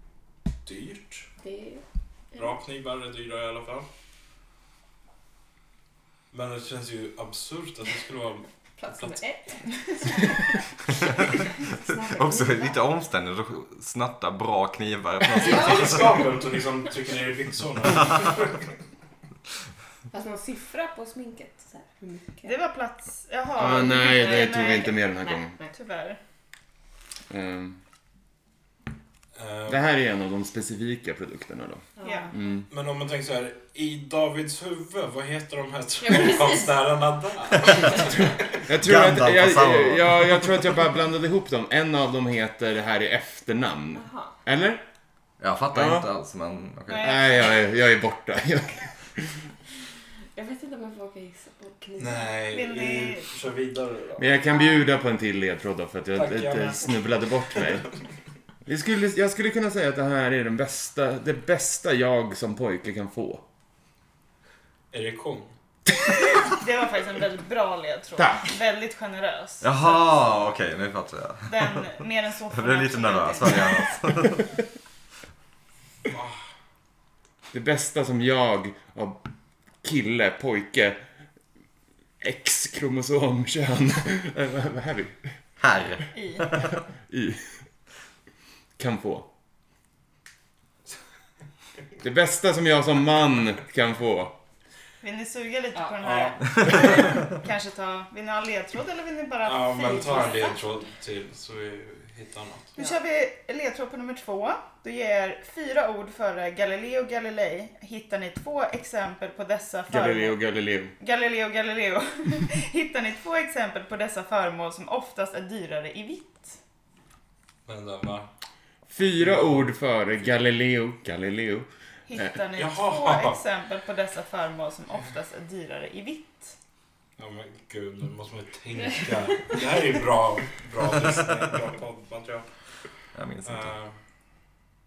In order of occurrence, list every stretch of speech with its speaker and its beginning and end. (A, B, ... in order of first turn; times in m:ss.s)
0:00.6-0:01.3 A
0:01.4-0:02.5 B
0:02.3-0:03.9 A
0:06.3-0:09.2 A
0:08.8-0:12.8 B
0:11.8-0:16.0 C
0:15.4-0:18.7 A
0:15.4-0:16.2 B
0:20.1-0:22.6 B
0:22.4-0:25.1 D
0:23.6-0:25.6 E
0:23.8-0:25.7 B
0:25.7-0:26.2 D
0:27.3-0:27.8 E
0:29.3-0:29.8 A
0:29.7-0:32.7 E
0:32.0-0:32.4 B
0:32.0-0:32.4 D
0:32.7-0:38.5 A
0:36.0-0:36.9 B
0:37.9-0:38.3 B
0:38.6-0:44.8 E
0:38.7-0:40.4 C
0:44.0-0:44.3 B
0:45.4-0:47.2 C
0:45.7-0:46.0 E
0:46.9-0:47.6 D
0:46.9-0:49.4 E
0:50.4-0:52.5 B
0:52.0-0:54.3 A
0:52.5-0:53.3 D
0:54.2-0:57.9 E
0:56.1-0:56.9 A
0:58.7-1:03.4 E
1:04.9-1:05.5 A
1:06.4-1:10.0 D
1:08.2-1:08.4 E
1:09.6-1:11.8 C
1:11.5-1:14.0 D
1:12.5-1:14.5 C
1:16.1-1:16.4 A
1:17.5-1:19.2 E
1:19.8-1:21.0 E
1:22.2-1:25.3 E
1:25.6-1:26.7 C
1:26.1-1:26.4 D
1:27.1-1:27.5 E
1:28.8-1:29.3 E
1:32.0-1:34.4 E
1:35.0-1:40.6 D
1:36.0-1:37.0 A
1:39.4-1:42.8 A
1:39.8-1:40.8 B
1:42.8-1:50.4 D
1:49.9-1:50.9 E
1:51.0-1:56.6 D
1:57.7-1:58.3 A
1:58.9-2:02.4 E
1:59.2-1:59.7 A
2:02.1-2:06.6 D
2:02.6-2:03.4 A
2:07.2-2:12.5 A
2:13.2-2:13.7 C
2:13.4-2:14.0 A